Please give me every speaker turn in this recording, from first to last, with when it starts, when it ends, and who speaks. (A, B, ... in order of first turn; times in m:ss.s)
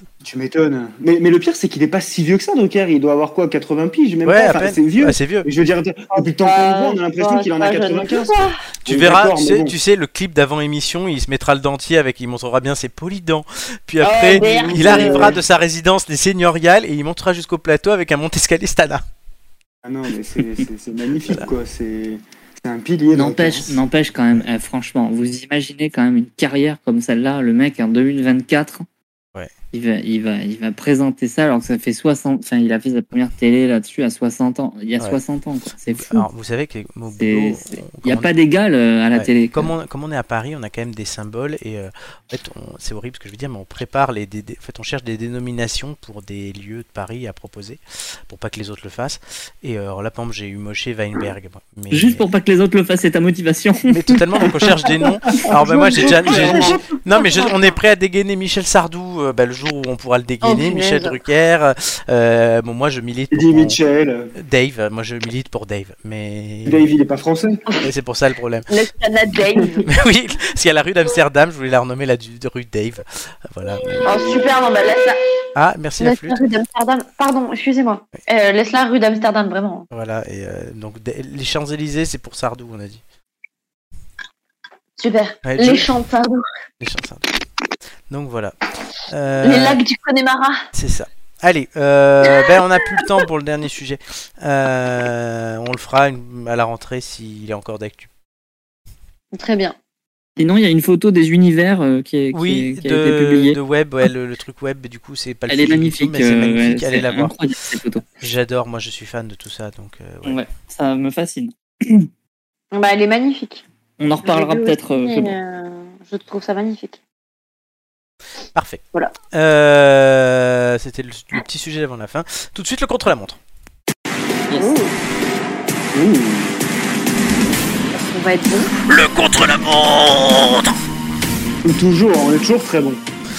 0:00.2-0:09.7 A
0:04.2-0:05.5 B
0:06.4-0:08.6 C
0:08.9-0:19.0 B
0:14.0-0:15.3 C
0:14.3-0:15.4 A
0:19.8-0:23.8 A
0:23.1-0:28.9 D
0:29.7-0:36.3 D
0:35.9-0:38.3 B
0:37.2-0:39.7 D
0:39.1-0:52.2 B
0:51.9-0:54.0 D
0:53.9-1:03.8 B
0:54.4-0:54.7 A
0:55.3-0:56.8 A
0:55.6-0:57.7 C
1:00.4-1:01.2 C
1:03.3-1:04.3 A
1:04.4-1:06.9 B
1:06.6-1:07.6 A
1:07.8-1:08.7 B
1:08.7-1:09.9 C
1:09.8-1:14.2 B
1:14.0-1:15.2 C
1:14.1-1:14.4 A
1:15.6-1:16.4 B
1:16.0-1:19.8 C
1:19.9-1:23.0 B
1:25.0-1:26.4 C
1:25.4-1:25.9 B
1:26.8-1:27.3 B
1:28.1-1:28.6 B
1:29.1-1:29.8 B
1:29.4-1:30.6 C
1:30.7-1:38.1 B
1:39.3-1:39.8 C
1:40.4-1:43.6 D
1:42.3-1:47.4 B
1:45.5-1:48.1 D
1:48.2-1:50.4 B
1:50.3-1:52.1 D
1:52.7-1:53.6 C
1:54.0-1:55.4 D
1:54.2-1:57.0 C
1:58.6-2:03.4 B
2:04.6-2:04.9 C
2:05.9-2:06.6 A
2:07.9-2:08.7 C
2:08.8-2:10.7 B
2:11.6-2:13.0 A